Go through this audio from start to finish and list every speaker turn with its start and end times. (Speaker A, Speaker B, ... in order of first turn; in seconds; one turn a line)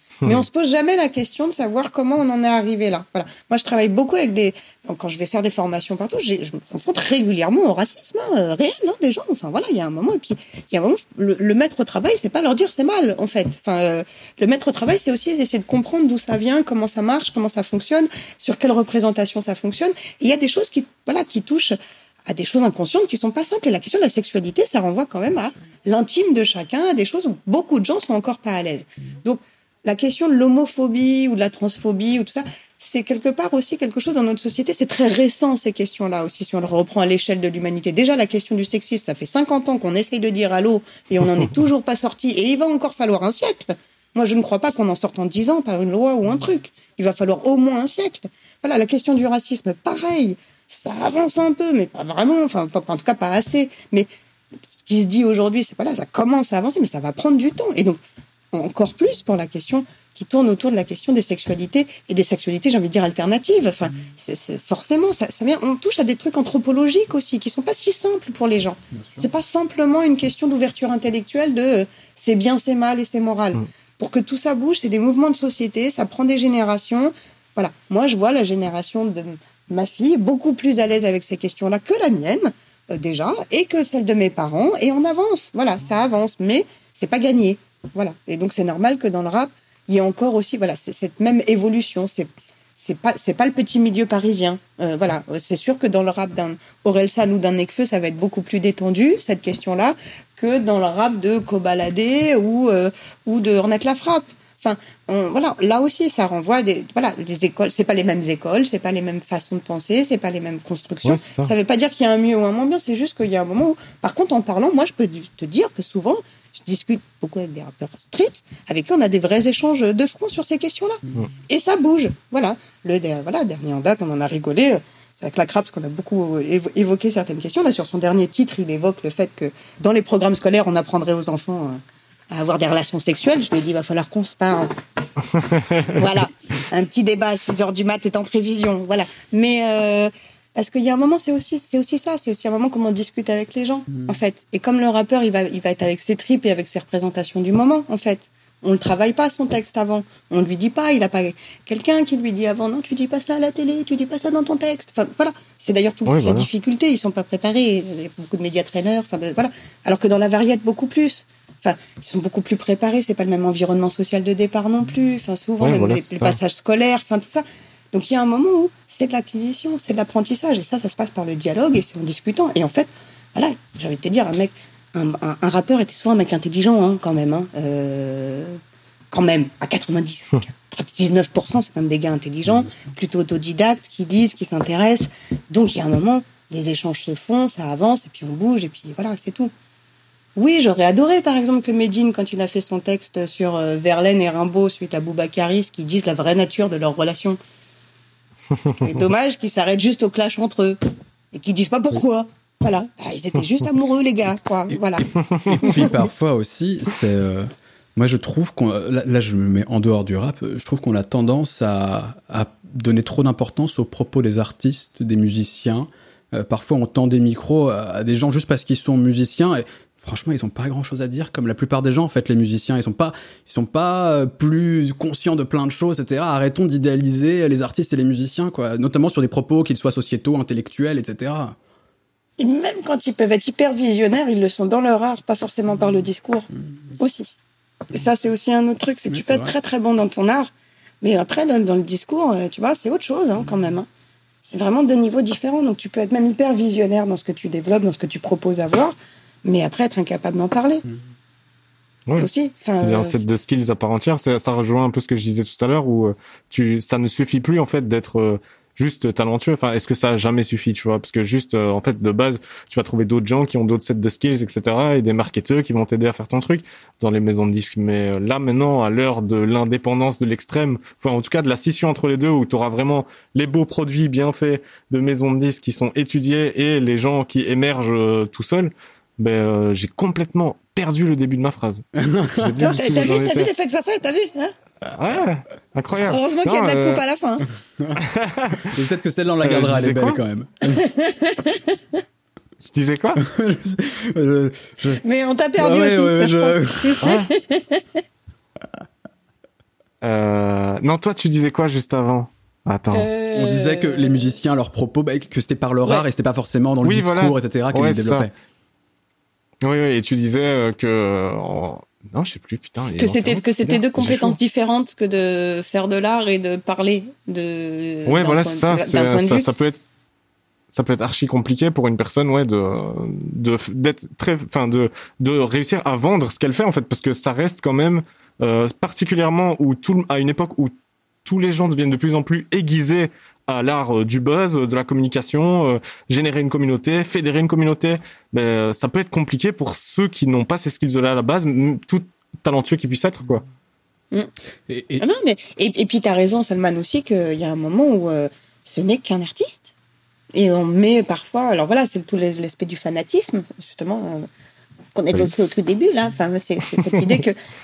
Speaker A: 0.2-54.1
Speaker A: 54.8-58.0
Speaker A: 58.5-131.8
Speaker B: 68.9-69.3
Speaker C: 111.0-111.5
Speaker A: 132.3-134.7
Speaker C: 135.3-136.0
Speaker A: 135.9-178.6
Speaker C: 156.1-156.5
Speaker C: 165.6-166.4
Speaker A: 179.1-189.5
Speaker A: 190.4-197.4
Speaker A: 198.8-200.8
Speaker A: 201.3-205.1
Speaker B: 205.0-231.6
Speaker A: 205.6-206.0
Speaker A: 232.4-237.4
Speaker A: 237.9-243.9
Speaker B: 239.1-239.5
Speaker A: 244.4-250.8
Speaker C: 252.1-281.8
Speaker A: 252.2-253.2
Speaker B: 281.9-282.8
Speaker C: 282.4-283.5
Speaker A: 282.6-284.5
Speaker C: 284.9-287.0
Speaker A: 286.1-287.4
Speaker C: 288.0-288.7
Speaker B: 288.6-290.9
Speaker C: 289.4-290.2
Speaker A: 290.6-292.0
Speaker C: 292.6-293.2
Speaker B: 293.2-295.0
Speaker A: 295.0-298.0
Speaker B: 295.6-297.1
Speaker C: 297.0-297.3
Speaker C: 300.0-303.1
Speaker A: 302.9-304.4
Speaker B: 303.3-308.3
Speaker C: 306.8-308.3
Speaker C: 309.6-314.4
Speaker A: 313.0-319.5
Speaker C: 318.1-319.8
Speaker C: 320.7-330.7
Speaker C: 331.2-343.4
Speaker B: 344.7-345.1
Speaker A: 345.0-349.7
Speaker A: 350.3-354.3
Speaker A: 354.9-357.4